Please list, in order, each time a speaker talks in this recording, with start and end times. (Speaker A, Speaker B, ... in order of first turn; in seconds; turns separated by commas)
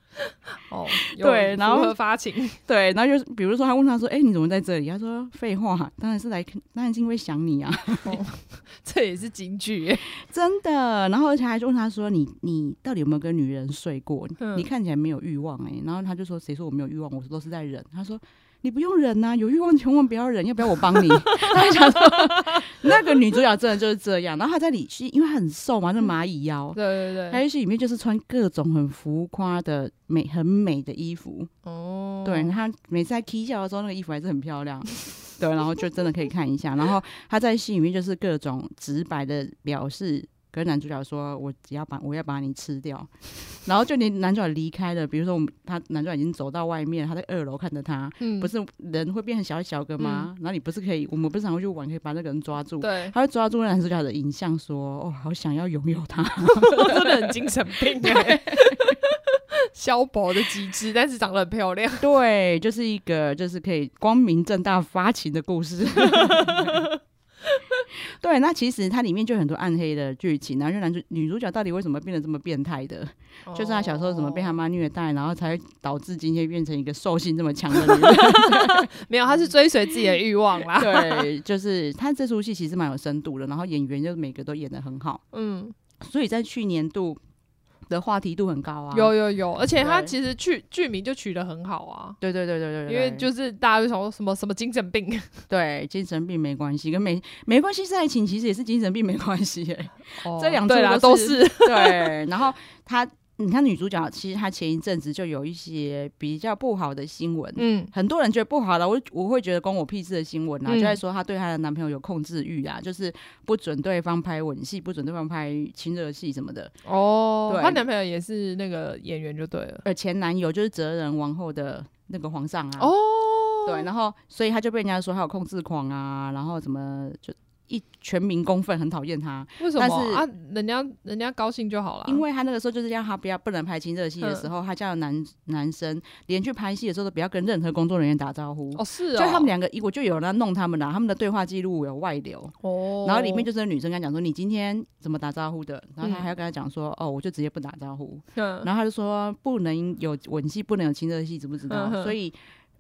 Speaker A: 0.7-2.6, Speaker B: 1.2-2.0, Speaker B: 2.7-8.2, Speaker A: 8.0-10.1, Speaker B: 10.2-31.5, Speaker A: 14.4-14.7, Speaker A: 26.8-27.4, Speaker A: 31.6-32.6, Speaker B: 32.2-57.3, Speaker A: 48.2-48.5, Speaker A: 50.0-50.3, Speaker A: 52.8-53.1, Speaker A: 56.6-59.0, Speaker B: 58.0-59.0, Speaker A: 59.7-62.1, Speaker B: 62.0-66.9, Speaker A: 66.0-67.0, Speaker B: 68.1-78.9, Speaker A: 73.5-74.5, Speaker A: 77.7-81.3, Speaker B: 80.0-85.2, Speaker A: 85.3-85.8, Speaker B: 86.0-87.2, Speaker B: 87.9-89.1, Speaker A: 88.9-92.2, Speaker B: 89.8-90.2, Speaker B: 92.2-93.3, Speaker A: 92.9-95.5, Speaker B: 95.5-116.7, Speaker A: 100.2-102.2, Speaker A: 107.6-107.9, Speaker A: 110.7-111.0, Speaker A: 116.8-119.9, Speaker B: 117.5-117.8, Speaker B: 119.8-122.9, Speaker A: 122.8-123.9, Speaker B: 123.7-130.2, Speaker A: 129.6-132.2, Speaker B: 132.1-152.4, Speaker A: 134.2-134.5, Speaker A: 138.8-139.5, Speaker A: 142.6-143.5, Speaker A: 146.0-146.3, Speaker A: 148.4-148.7, Speaker A: 151.7-152.2